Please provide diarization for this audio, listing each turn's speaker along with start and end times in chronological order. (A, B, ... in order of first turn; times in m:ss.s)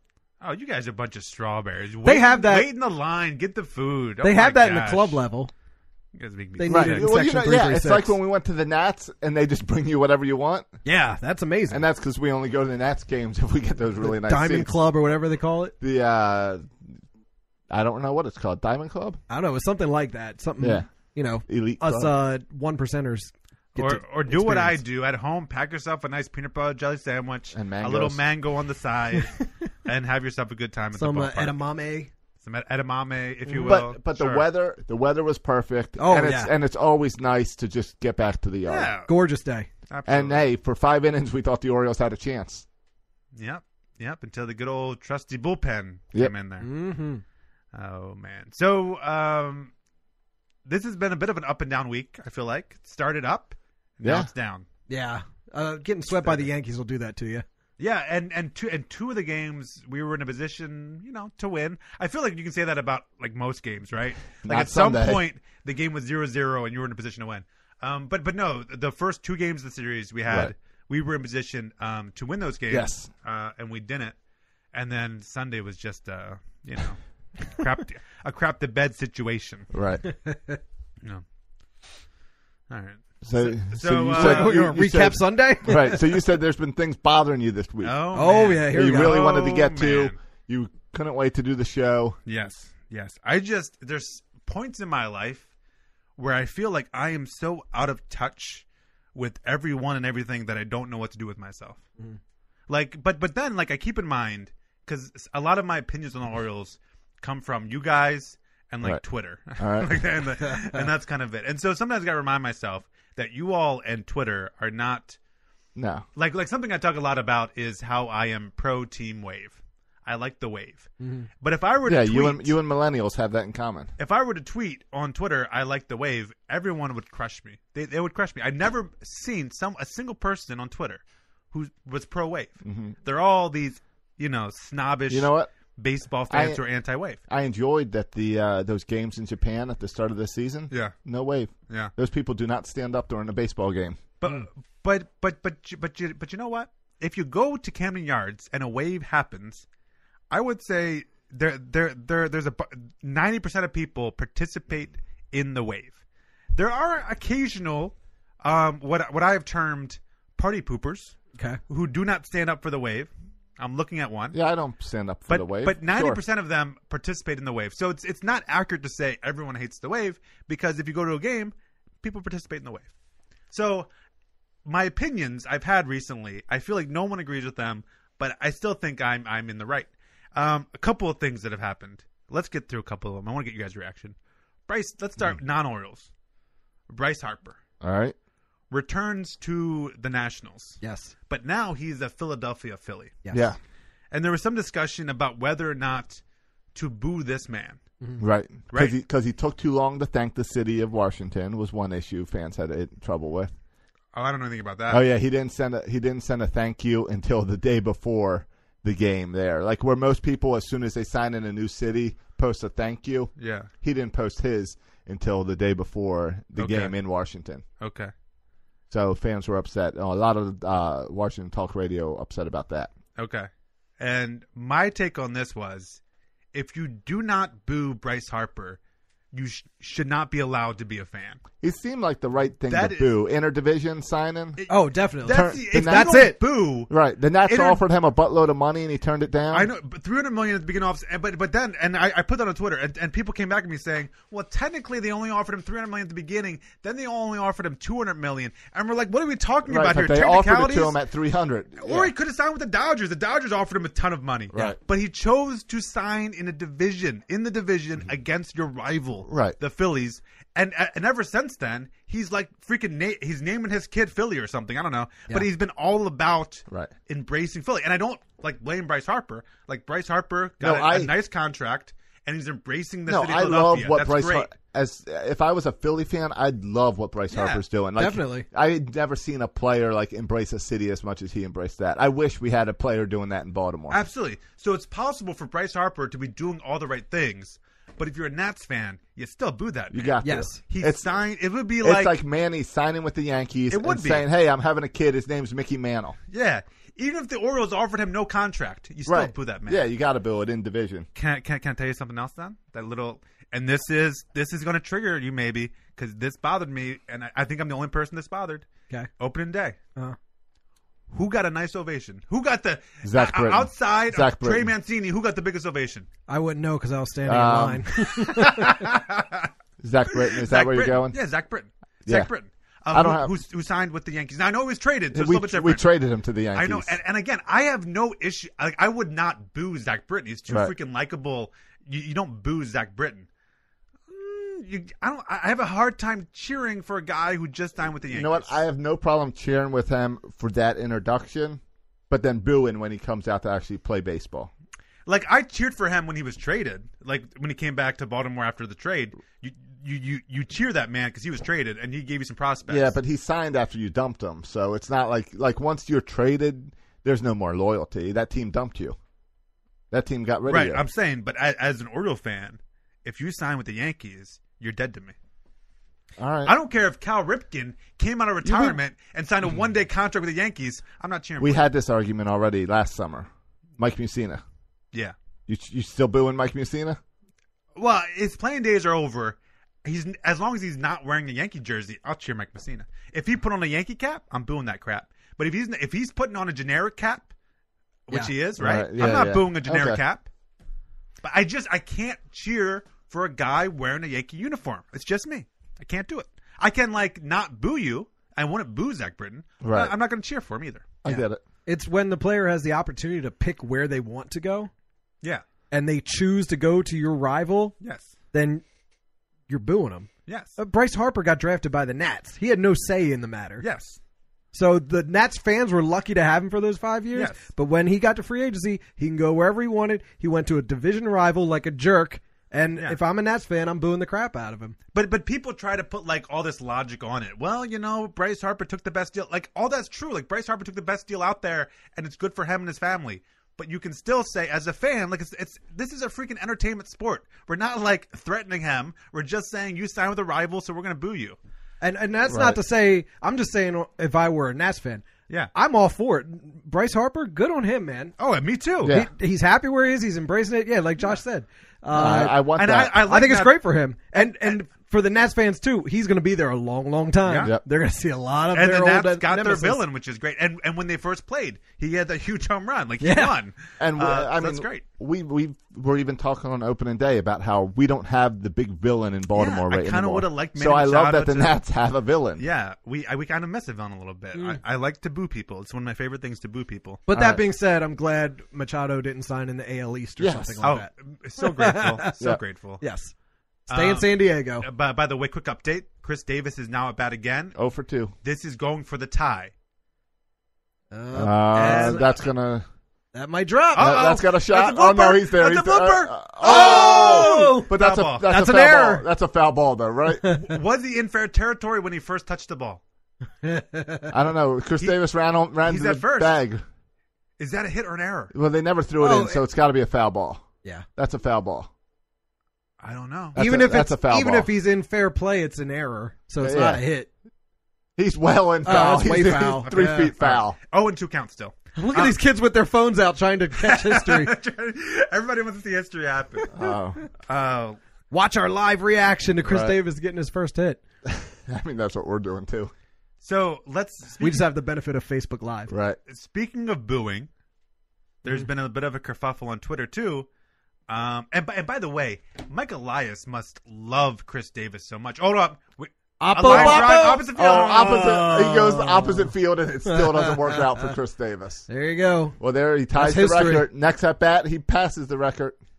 0:00.4-0:05.2 A
0:02.0-0:02.7 B
0:04.2-0:05.5 B
0:06.2-0:07.1 A
0:06.6-0:08.2 B
0:06.7-0:10.7 C
0:10.8-0:11.8 B
0:11.7-0:14.7 C
0:14.0-0:15.7 B
0:15.8-0:16.7 C
0:17.7-0:19.2 C
0:19.3-0:24.8 B
0:20.6-0:20.9 C
0:21.4-0:22.1 C
0:23.8-0:31.6 A
0:27.5-0:28.2 C
0:31.0-0:32.1 B
0:32.4-0:34.4 A
0:33.5-0:33.8 B
0:33.6-0:38.9 C
0:36.0-0:36.5 B
0:38.6-0:39.1 A
0:39.1-0:39.7 B
0:39.9-0:40.4 A
0:40.1-0:42.6 C
0:43.4-0:46.7 A
0:46.6-0:47.2 B
0:47.7-0:49.7 A
0:50.7-0:54.6 A
0:54.0-0:54.3 C
0:54.9-0:57.4 B
0:56.1-0:56.4 A
0:57.8-1:14.2 A
1:04.4-1:05.2 C
1:10.3-1:10.5 C
1:12.7-1:13.1 C
1:14.7-1:19.7 A
1:19.7-1:20.1 C
1:20.1-1:20.6 B
1:22.7-1:24.6 A
1:23.2-1:28.0 C
1:24.1-1:26.1 B
1:27.8-1:30.2 A
1:28.1-1:29.2 B
1:28.6-1:32.2 C
1:32.3-1:35.5 A
1:36.2-1:38.6 A
1:39.2-1:41.8 A
1:42.7-1:55.2 A
1:49.6-1:50.1 C
1:55.8-1:56.0 C
1:56.2-2:00.9 A
2:01.0-2:01.3 B
2:01.4-2:02.6 A
2:01.8-2:03.9 C
2:04.0-2:17.2 A
2:12.6-2:13.0 C
2:15.1-2:15.5 C
2:16.3-2:16.6 C
2:17.3-2:24.0 C
2:24.2-2:29.6 A
2:30.3-2:36.0 A
2:36.6-2:44.4 A
2:44.3-2:46.2 C
2:45.3-2:52.9 A
2:53.5-2:53.9 A
2:54.6-3:04.2 A
3:04.7-3:06.1 A
3:06.9-3:07.6 A
3:07.8-3:08.2 C
3:08.7-3:13.2 A
3:10.8-3:11.1 B
3:13.3-3:13.6 C
3:14.1-3:16.2 A
3:16.8-3:17.8 A
3:18.2-3:23.5 C
3:18.7-3:19.0 A
3:24.1-3:25.0 A
3:24.9-3:37.6 C
3:33.4-3:33.7 A
3:36.6-3:37.0 A
3:37.8-3:38.1 A
3:38.9-3:42.9 C
3:43.2-3:46.0 A
3:46.5-3:48.8 A
3:49.3-3:51.4 A
3:51.6-3:54.6 C
3:52.7-3:53.1 A
3:54.6-3:56.9 A
3:54.7-3:56.4 B
3:55.3-3:56.3 C
3:56.9-3:59.7 C
3:57.4-3:57.8 A
3:59.5-4:11.0 A
4:09.7-4:12.1 C
4:11.8-4:34.5 A
4:14.5-4:14.8 C
4:19.2-4:19.6 C
4:30.6-4:31.1 C
4:33.1-4:44.0 C
4:37.3-4:37.6 A
4:38.0-4:38.5 B
4:43.9-4:52.2 A
4:49.9-4:51.1 C
4:50.2-4:50.6 B
4:51.8-4:56.2 C
4:53.7-4:54.3 A
4:56.3-4:59.8 A
4:59.1-5:01.1 C
5:01.2-5:08.7 A
5:09.2-5:09.8 A
5:11.1-5:16.1 A
5:13.0-5:14.7 C
5:16.3-5:18.7 B
5:17.2-5:18.5 C
5:18.2-5:19.5 A
5:19.8-5:21.2 C
5:20.2-5:25.8 A
5:22.9-5:23.3 C
5:25.1-5:27.0 C
5:26.6-5:33.3 A
5:30.5-5:30.7 C
5:34.1-5:38.6 A
5:38.1-5:44.5 C
5:45.1-5:53.0 A
5:52.7-5:59.0 C
5:59.9-6:00.8 C
6:00.5-6:05.2 A
6:06.2-6:06.6 C
6:06.4-6:11.7 A
6:08.4-6:08.8 C
6:11.4-6:14.4 C
6:15.5-6:17.0 C
6:17.8-6:27.3 A
6:28.1-6:30.3 A
6:28.6-6:30.0 C
6:31.2-6:40.9 A
6:39.6-6:39.9 C
6:41.0-6:41.4 C
6:41.1-6:44.7 B
6:45.7-6:47.8 B
6:47.8-6:48.1 A
6:48.3-6:48.6 B
6:49.5-6:53.6 B
6:50.3-6:50.6 A
6:53.6-6:54.0 A
6:54.5-7:04.8 B
6:57.1-6:57.4 A
7:04.9-7:21.4 A
7:21.8-7:28.1 B
7:22.3-7:22.6 C
7:28.2-7:28.9 A
7:28.8-7:29.1 C
7:28.8-7:32.4 B
7:31.9-7:33.0 C
7:32.0-7:33.6 A
7:33.0-7:39.8 B
7:37.2-7:37.5 A
7:38.5-7:44.8 A
7:43.0-7:43.3 B
7:43.8-7:52.4 C
7:49.3-7:51.6 A
7:52.4-7:57.0 A
7:57.1-8:02.1 B
7:57.1-7:57.4 C
8:00.2-8:00.6 C
8:00.6-8:02.8 A
8:02.8-8:03.1 B
8:03.7-8:04.7 B
8:03.7-8:07.6 A
8:07.6-8:08.1 C
8:08.2-8:09.5 A
8:10.9-8:12.1 B
8:11.1-8:12.7 C
8:13.1-8:14.1 B
8:13.8-8:18.3 A
8:13.8-8:20.4 C
8:16.4-8:17.7 B
8:18.2-8:19.1 B
8:20.3-8:22.8 A
8:23.4-8:24.1 B
8:24.1-8:26.6 C
8:25.6-8:26.4 A
8:27.4-8:28.3 A
8:28.3-8:30.4 C
8:29.0-8:29.4 B
8:31.0-8:31.7 C
8:32.8-8:33.4 A
8:33.4-8:34.5 C
8:33.4-8:37.1 B
8:36.4-8:36.8 C
8:38.0-8:40.6 C
8:38.6-8:40.1 B
8:39.6-8:42.2 A
8:41.8-8:44.3 B
8:43.6-8:46.5 A
8:46.5-8:47.0 C
8:47.3-8:47.8 A
8:48.1-8:50.8 B
8:49.4-8:49.8 C
8:51.1-8:52.7 C
8:53.2-8:54.4 A
8:54.2-8:55.7 B
8:55.7-8:56.0 C
8:56.1-8:57.3 A
8:58.2-9:00.3 A
9:00.9-9:08.2 A
9:06.2-9:07.3 B
9:06.3-9:11.7 C
9:07.8-9:09.3 B
9:09.9-9:10.9 B
9:11.7-9:12.4 B
9:12.4-9:15.6 C
9:13.0-9:13.7 B